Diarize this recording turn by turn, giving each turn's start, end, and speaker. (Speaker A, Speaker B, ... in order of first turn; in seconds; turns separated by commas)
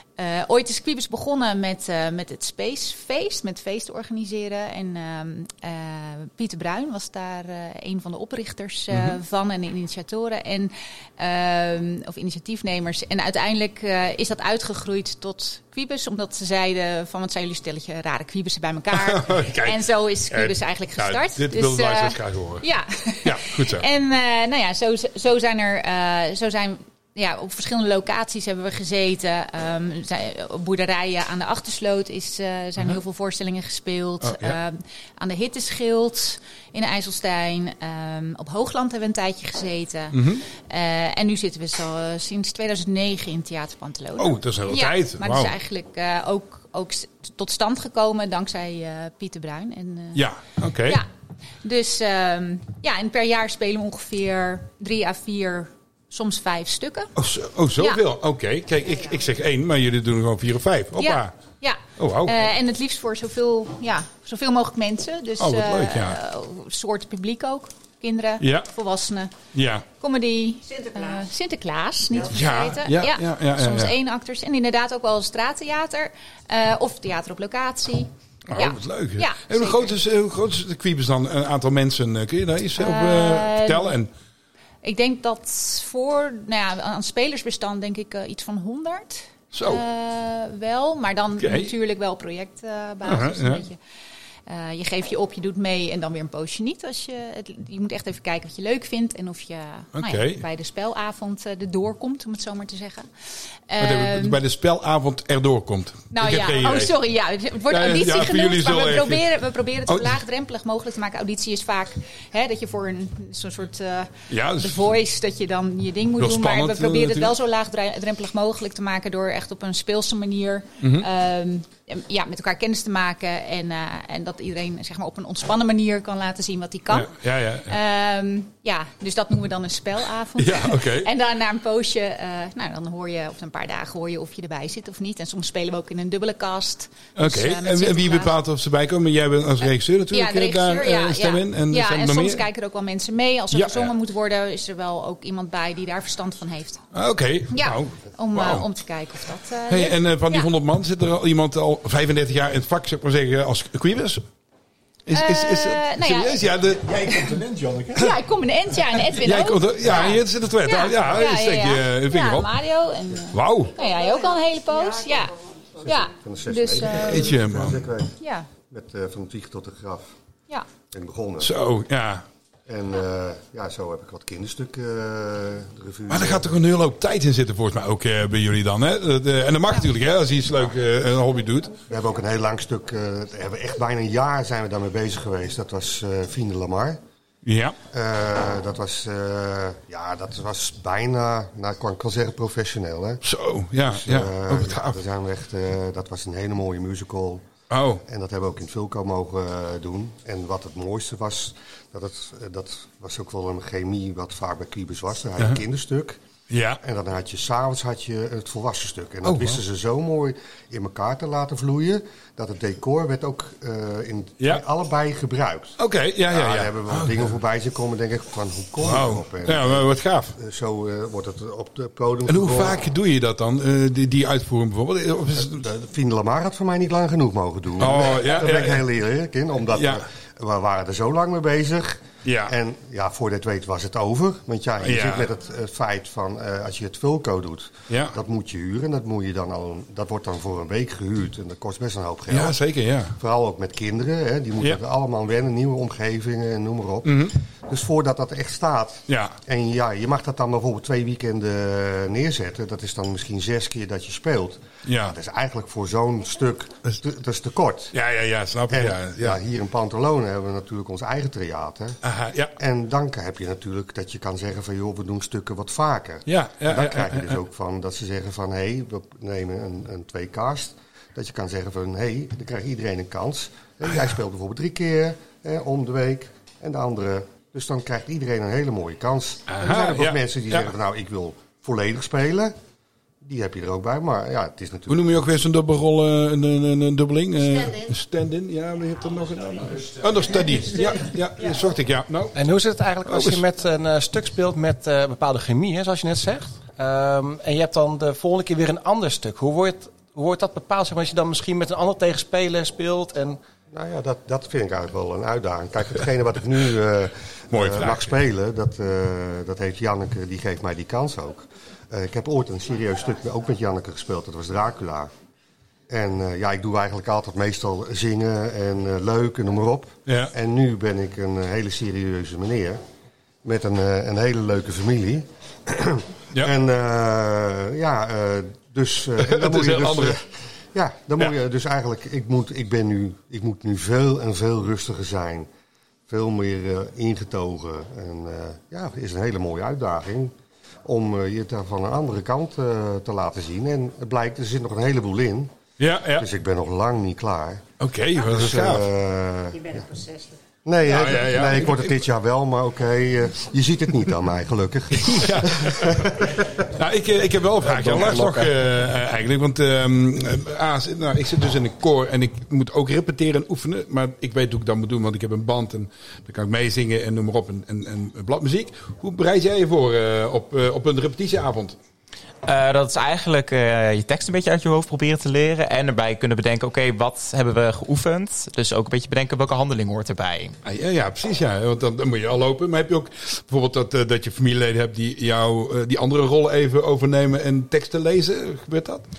Speaker A: 0.2-50.2, Speaker B: 8.9-9.2, Speaker B: 18.9-22.6, Speaker B: 23.2-23.9, Speaker B: 34.2-34.6, Speaker B: 40.1-40.4, Speaker B: 44.2-45.5, Speaker B: 50.1-51.0, Speaker A: 51.6-57.1, Speaker B: 57.2-61.3, Speaker A: 61.0-69.3, Speaker B: 62.0-62.4, Speaker B: 65.4-66.2, Speaker B: 68.4-68.7, Speaker B: 69.5-69.9, Speaker A: 70.0-79.9, Speaker B: 72.3-74.0, Speaker B: 78.5-84.1, Speaker A: 82.8-83.9, Speaker A: 84.8-93.8, Speaker B: 89.5-89.8, Speaker B: 91.4-91.7, Speaker B: 93.0-93.7, Speaker A: 94.5-103.1, Speaker B: 99.9-100.4, Speaker A: 103.7-104.4, Speaker B: 103.8-106.9, Speaker A: 106.1-127.1, Speaker B: 107.7-109.3, Speaker B: 109.9-110.2, Speaker B: 114.3-114.9, Speaker B: 116.2-117.3, Speaker B: 120.8-121.1, Speaker B: 126.9-127.8, Speaker A: 127.6-138.3, Speaker B: 130.4-131.1, Speaker B: 137.2-142.4, Speaker A: 140.1-146.8, Speaker B: 143.5-143.9, Speaker B: 146.9-148.7, Speaker A: 147.5-150.5, Speaker B: 149.7-154.2, Speaker B: 155.1-156.9, Speaker A: 155.1-156.4, Speaker C: 156.8-158.1, Speaker A: 157.9-165.3, Speaker B: 159.1-162.5, Speaker B: 163.3-163.8, Speaker D: 163.8-164.2, Speaker D: 164.7-165.8, Speaker E: 165.8-170.1, Speaker A: 165.9-167.4, Speaker B: 166.9-167.9, Speaker A: 168.2-168.5, Speaker E: 170.9-171.5, Speaker B: 171.4-172.2, Speaker E: 172.7-176.6, Speaker B: 176.1-181.8, Speaker E: 181.9-187.0, Speaker B: 187.4-187.8, Speaker E: 187.9-193.2, Speaker B: 193.2-195.0, Speaker E: 193.9-197.4, Speaker B: 197.7-198.0, Speaker E: 198.1-206.2, Speaker B: 206.5-206.8, Speaker E: 206.8-215.8, Speaker B: 209.2-209.6, Speaker B: 215.8-217.3, Speaker E: 216.3-222.8, Speaker B: 218.8-220.3, Speaker B: 222.3-225.7, Speaker E: 225.4-242.6, Speaker B: 227.8-228.8, Speaker B: 229.8-230.0, Speaker B: 232.2-232.5, Speaker B: 234.8-235.3, Speaker B: 237.9-238.2, Speaker B: 242.3-243.2, Speaker E: 243.2-257.9, Speaker B: 247.0-247.3, Speaker B: 249.1-249.3, Speaker B: 254.8-255.2, Speaker B: 257.9-259.4, Speaker E: 258.7-262.0, Speaker B: 262.0-262.5, Speaker E: 262.6-282.6, Speaker B: 266.3-267.4, Speaker B: 279.5-280.7, Speaker E: 283.2-285.2, Speaker B: 284.9-292.4, Speaker F: 292.4-303.4, Speaker B: 293.1-293.4, Speaker E: 303.7-315.1, Speaker B: 307.5-308.1, Speaker E: 315.9-322.8, Speaker B: 320.1-320.3, Speaker E: 323.4-330.2, Speaker B: 329.2-330.2, Speaker E: 330.7-335.5, Speaker E: 336.1-340.3, Speaker E: 340.9-345.5, Speaker B: 345.8-346.3, Speaker E: 346.2-347.6, Speaker B: 347.8-348.9, Speaker E: 348.2-349.8, Speaker D: 349.6-350.4, Speaker E: 350.6-356.4, Speaker B: 350.9-352.0, Speaker B: 355.0-356.0, Speaker B: 356.7-371.8, Speaker C: 357.7-358.5, Speaker G: 372.4-380.6, Speaker B: 380.6-389.0